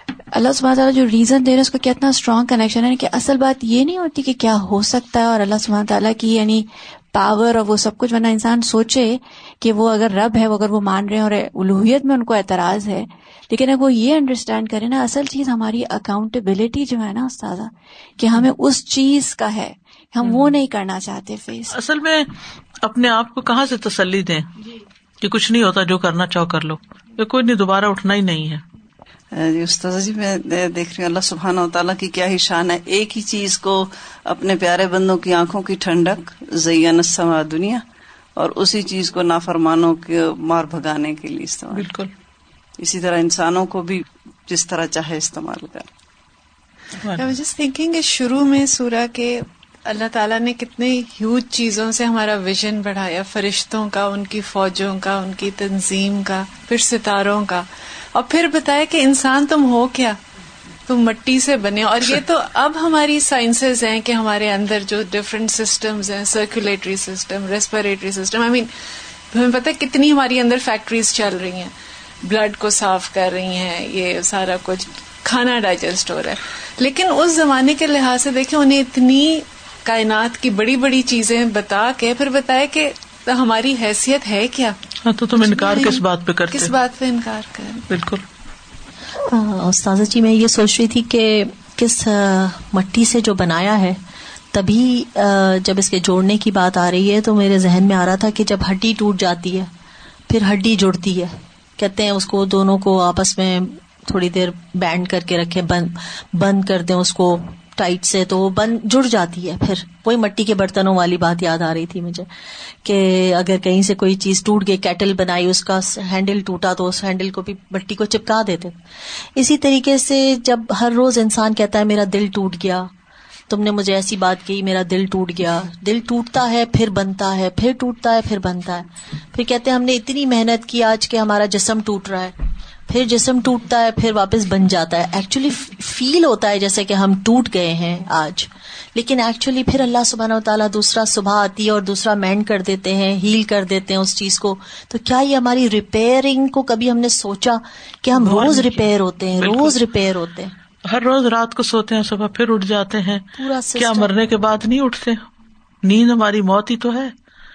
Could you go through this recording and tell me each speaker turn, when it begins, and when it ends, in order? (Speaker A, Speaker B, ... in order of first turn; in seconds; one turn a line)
Speaker A: 0.3-21.8
Speaker B: 20.2-20.5
Speaker B: 21.7-22.3
Speaker B: 22.8-24.5
Speaker B: 25.2-28.6
Speaker C: 29.3-37.8
Speaker C: 38.4-41.9
Speaker B: 41.7-42.1
Speaker C: 42.8-45.9
Speaker B: 47.0-47.3
Speaker D: 47.1-60.2
Speaker D: 60.9-68.7
Speaker D: 69.3-71.7
Speaker D: 72.2-84.8
Speaker B: 85.0-86.7
Speaker D: 85.4-87.9
Speaker B: 87.9-88.2
Speaker E: 89.2-94.0
Speaker E: 94.5-99.7
Speaker E: 100.3-112.3
Speaker E: 112.8-118.8
Speaker E: 119.4-122.9
Speaker E: 123.5-132.3
Speaker E: 132.9-150.5
Speaker B: 148.1-149.8
Speaker B: 150.9-155.2
Speaker E: 153.4-154.1
Speaker B: 155.8-157.1